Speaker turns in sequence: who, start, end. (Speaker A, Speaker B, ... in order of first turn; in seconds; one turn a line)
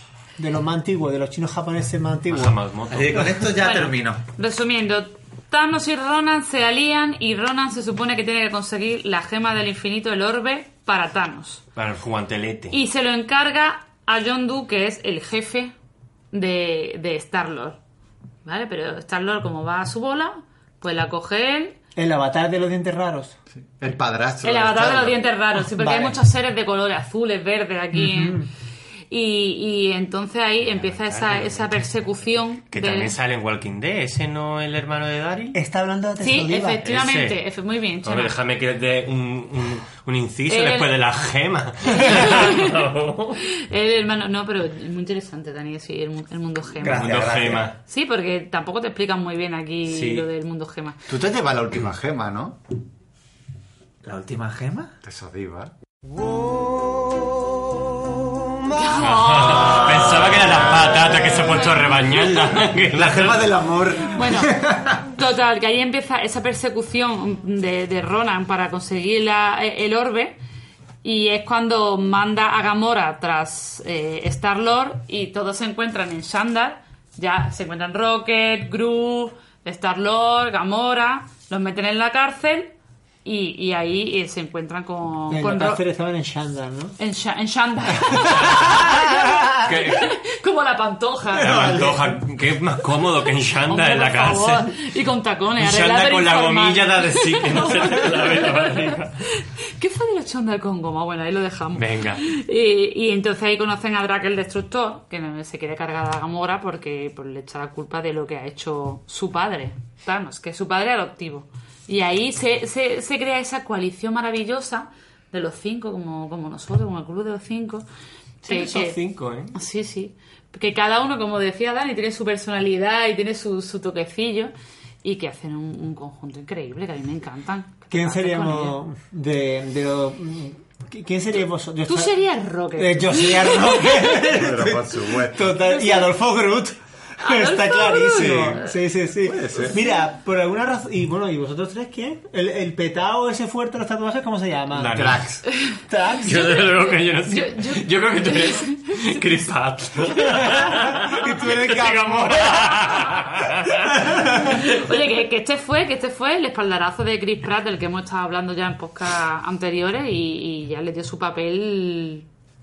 Speaker A: 0.4-2.6
Speaker B: 2.3-3.4
Speaker C: 2.9-4.2
Speaker D: 3.6-11.6
Speaker B: 11.8-12.8
Speaker D: 12.7-15.7
Speaker D: 16.3-17.8
Speaker D: 18.4-21.8
Speaker A: 22.0-23.4
Speaker E: 23.6-25.2
Speaker D: 24.4-28.4
Speaker A: 25.8-26.2
Speaker A: 27.9-28.5
Speaker D: 29.1-33.1
Speaker B: 30.7-31.9
Speaker B: 32.7-35.6
Speaker A: 35.5-36.8
Speaker D: 36.2-38.4
Speaker B: 36.8-37.4
Speaker B: 38.0-43.4
Speaker D: 40.5-41.0
Speaker D: 41.9-42.7
Speaker D: 43.4-47.0
Speaker C: 46.8-47.7
Speaker B: 46.9-47.8
Speaker E: 47.0-47.3
Speaker D: 47.9-51.0
Speaker B: 49.9-50.3
Speaker E: 51.1-52.6
Speaker C: 54.0-54.9
Speaker E: 55.0-55.7
Speaker A: 56.2-57.3
Speaker A: 58.1-59.0
Speaker D: 58.7-60.2
Speaker B: 59.0-63.5
Speaker D: 61.6-62.0
Speaker E: 63.0-64.4
Speaker D: 64.1-64.5
Speaker D: 65.1-70.4
Speaker D: 71.0-82.7
Speaker D: 83.2-85.8
Speaker A: 85.3-87.0
Speaker D: 87.0-89.4
Speaker A: 88.2-89.7
Speaker B: 88.3-88.8
Speaker B: 89.6-90.1
Speaker D: 89.9-91.7
Speaker B: 91.4-94.7
Speaker A: 91.4-92.2
Speaker D: 93.7-117.8
Speaker B: 95.6-99.1
Speaker B: 101.8-102.2
Speaker B: 118.4-119.5
Speaker D: 118.5-119.0
Speaker D: 119.5-124.5
Speaker D: 125.0-128.8
Speaker A: 127.9-132.1
Speaker D: 131.9-134.2
Speaker A: 132.8-145.2
Speaker E: 134.3-135.5
Speaker D: 135.6-136.1
Speaker D: 137.2-138.7
Speaker E: 138.2-138.6
Speaker E: 139.2-139.8
Speaker B: 144.7-145.3
Speaker E: 145.0-145.4
Speaker A: 145.9-146.7
Speaker B: 146.2-154.6
Speaker D: 147.3-149.2
Speaker A: 150.2-152.9
Speaker A: 153.9-154.4
Speaker D: 154.4-162.3